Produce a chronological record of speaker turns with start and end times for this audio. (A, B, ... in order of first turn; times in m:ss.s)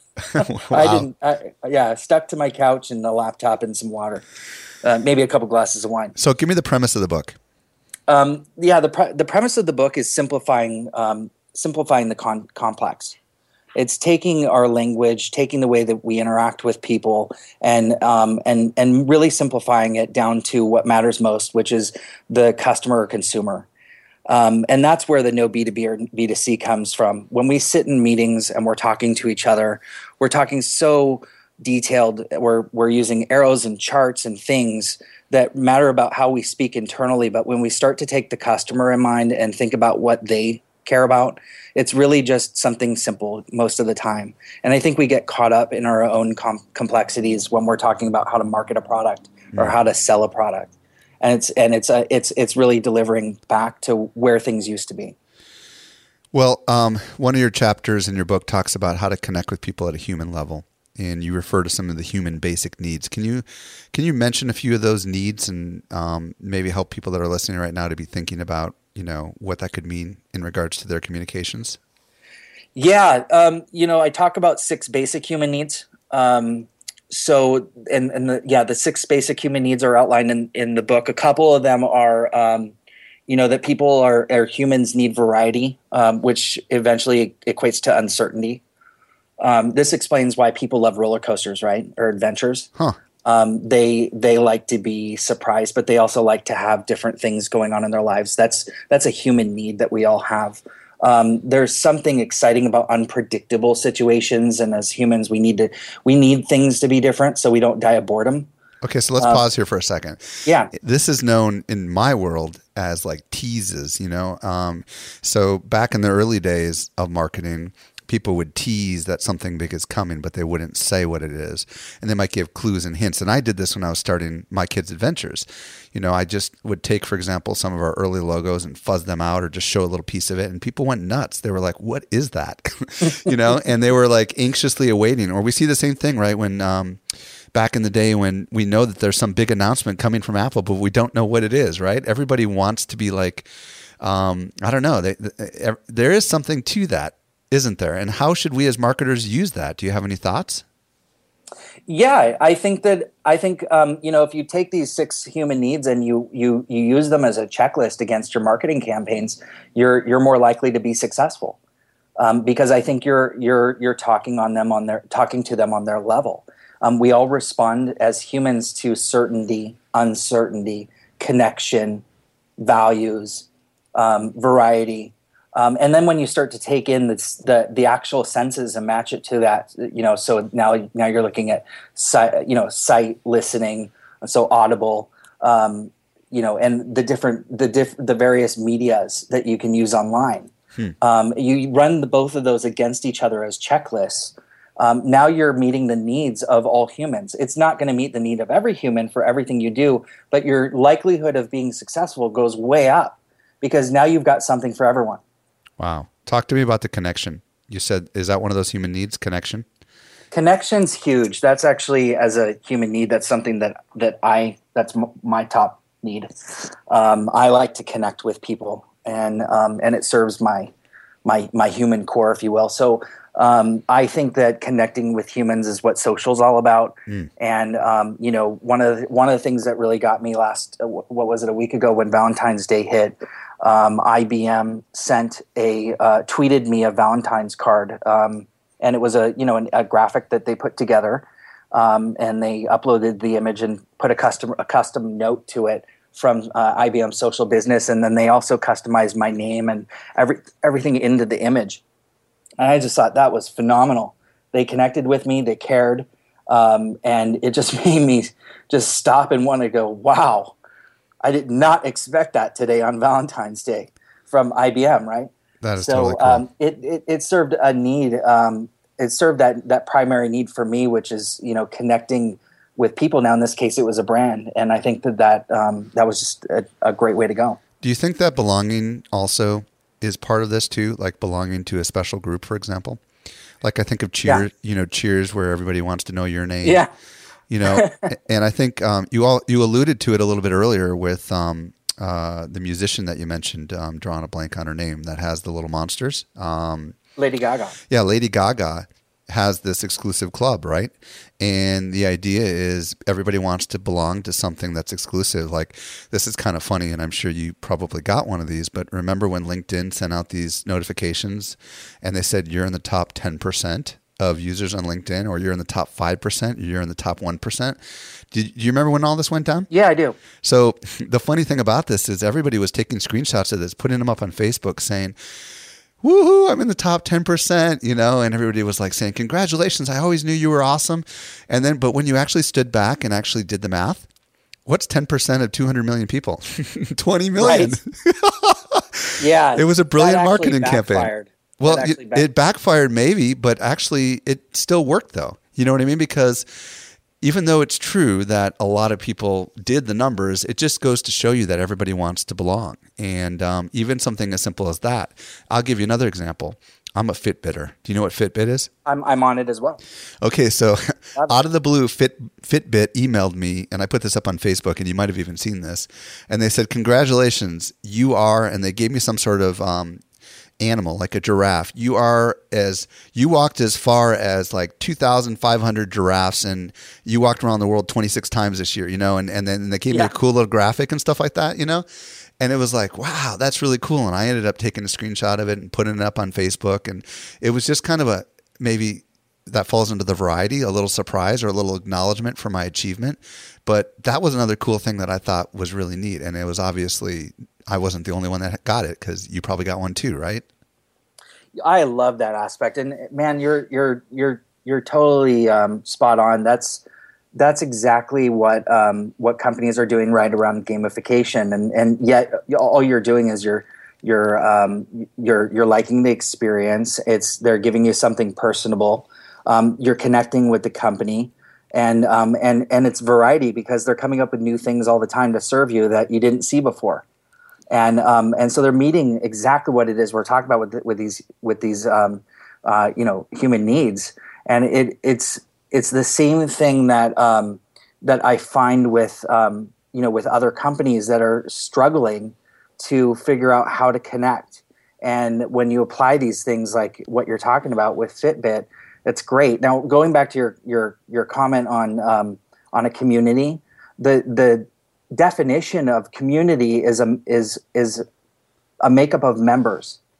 0:00.3-0:01.1 A
0:00.4-0:04.2 B
0:04.8-0:06.2 B
0:06.2-0:07.4 A
0:08.1-0:13.2 B
0:13.8-0:23.7 B
0:24.3-0:50.7 B
0:51.2-0:55.2 B
0:56.3-1:11.8 A
1:12.8-1:22.8 B
1:23.3-1:28.6 B
1:29.4-1:32.7 B
1:33.2-1:48.5 B
1:48.8-2:17.0 A
1:50.5-1:50.7 B
2:17.5-2:23.5 A
2:24.0-2:30.6 A
2:31.9-2:41.6 B
2:42.2-2:52.0 B
2:52.6-3:25.2 B
3:25.8-3:29.7 A
3:30.3-3:40.7 B
3:41.2-4:11.8 B
4:12.6-4:20.6 B
4:21.2-4:37.6 B
4:25.6-4:26.4 A
4:37.8-4:43.0 A
4:43.6-4:46.9 A
4:46.6-4:46.9 B
4:47.5-4:57.0 A
4:47.7-4:48.0 B
4:57.2-4:57.8 B
4:57.9-5:17.8 A
5:18.3-5:19.7 A
5:19.7-5:20.2 B
5:20.4-5:25.2 A
5:26.0-5:34.1 A
5:34.7-5:46.5 A
5:37.4-5:37.8 B
5:39.2-5:42.3 B
5:47.2-5:58.7 A
5:58.9-5:59.8 B
6:00.2-6:10.0 A
6:10.6-6:21.8 A
6:22.4-6:40.4 A
6:41.6-6:46.8 B
6:47.3-7:07.0 B
7:07.7-7:38.0 B
7:38.8-7:40.0 B